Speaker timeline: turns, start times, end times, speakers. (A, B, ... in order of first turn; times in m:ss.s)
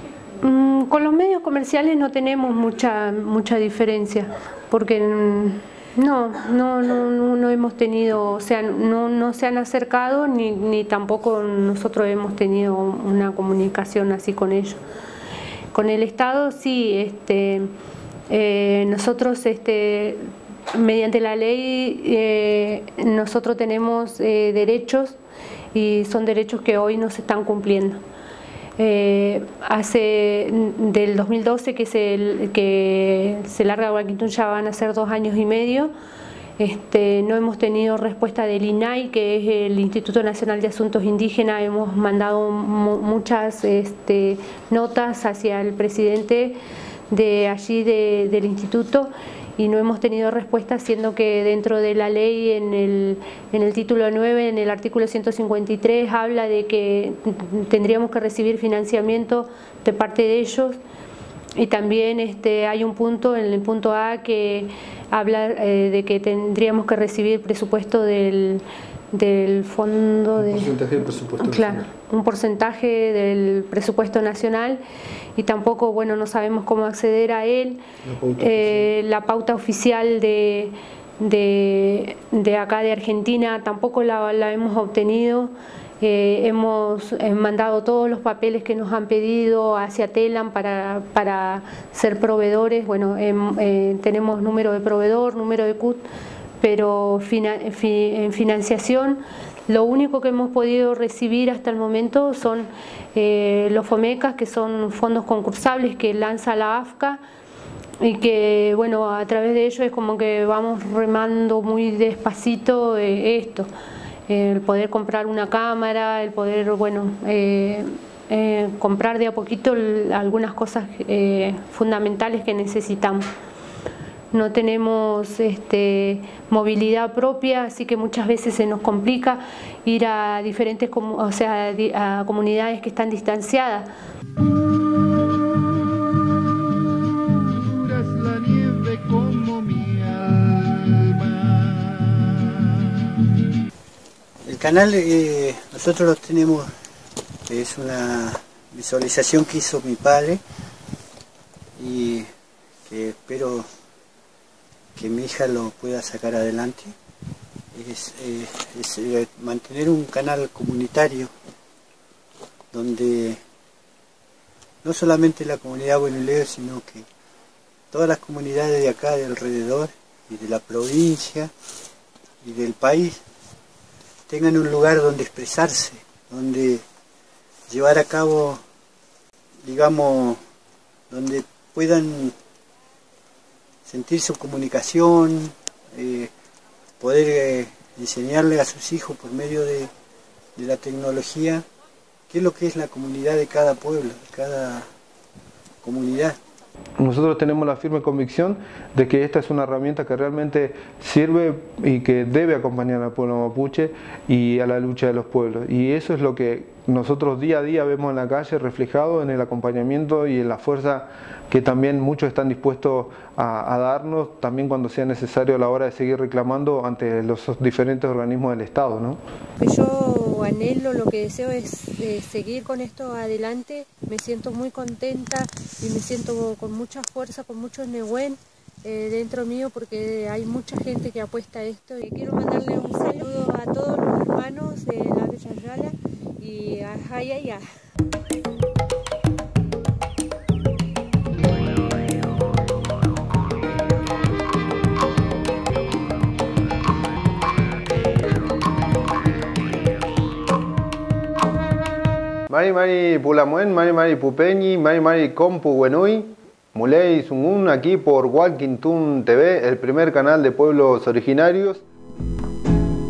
0:00.4-0:14.8 A
0:15.7-0:17.7 A
0:18.3-0:25.2 A
0:25.7-0:28.0 A
0:28.8-0:35.9 A
0:36.6-0:46.6 A
0:47.1-1:00.8 A
1:01.6-1:14.8 A
1:10.5-1:11.8 B
1:15.4-1:17.8 A
1:18.1-1:18.5 B
1:18.4-1:36.0 A
1:36.6-1:47.2 A
1:48.0-1:53.7 A
1:54.3-2:03.3 A
2:04.3-2:13.9 A
2:15.0-2:22.9 C
2:24.4-2:26.7 D
2:27.5-2:30.4 D
2:31.8-2:32.3 D
2:32.9-2:33.7 D
2:35.0-2:36.9 D
2:37.7-2:41.3 D
2:42.7-2:43.4 D
2:44.8-2:47.1 D
2:47.9-2:51.5 D
2:52.4-2:53.2 D
2:54.3-2:56.8 D
2:57.7-2:58.6 D
2:59.6-3:00.4 D
3:01.1-3:02.3 D
3:03.8-3:06.3 D
3:07.0-3:09.9 D
3:10.6-3:11.6 D
3:12.3-3:14.9 D
3:15.8-3:16.4 D
3:17.0-3:39.2 B
3:39.6-3:57.7 A
4:12.5-4:21.8 B